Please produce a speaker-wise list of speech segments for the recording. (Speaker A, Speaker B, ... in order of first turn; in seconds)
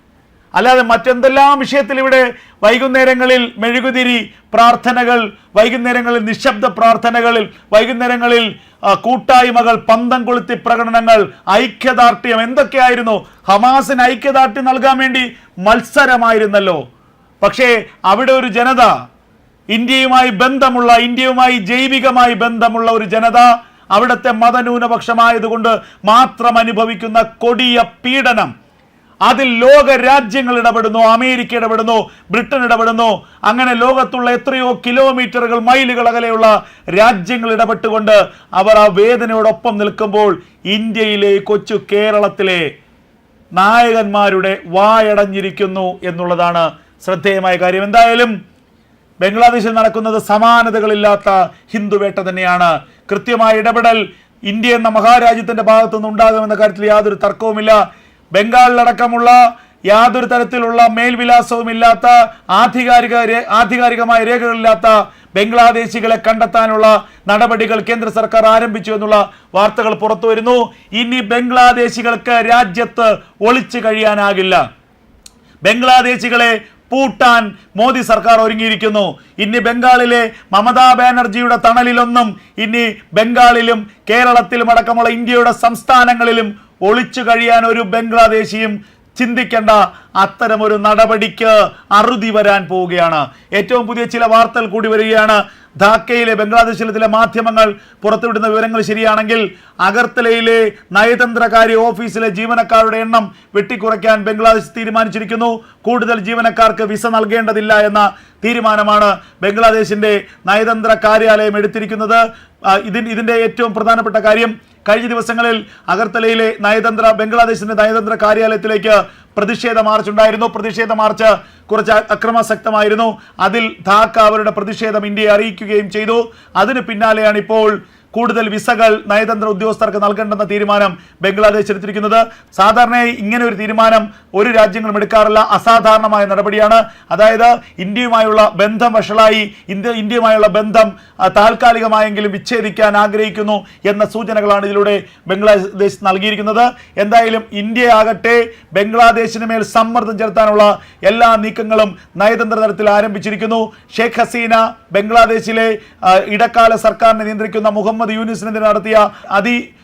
Speaker A: 0.6-16.8, 17.4-18.9, 19.7-28.5, 29.2-42.7, 43.6-48.3, 49.2-57.8, 58.3-74.6, 75.6-159.6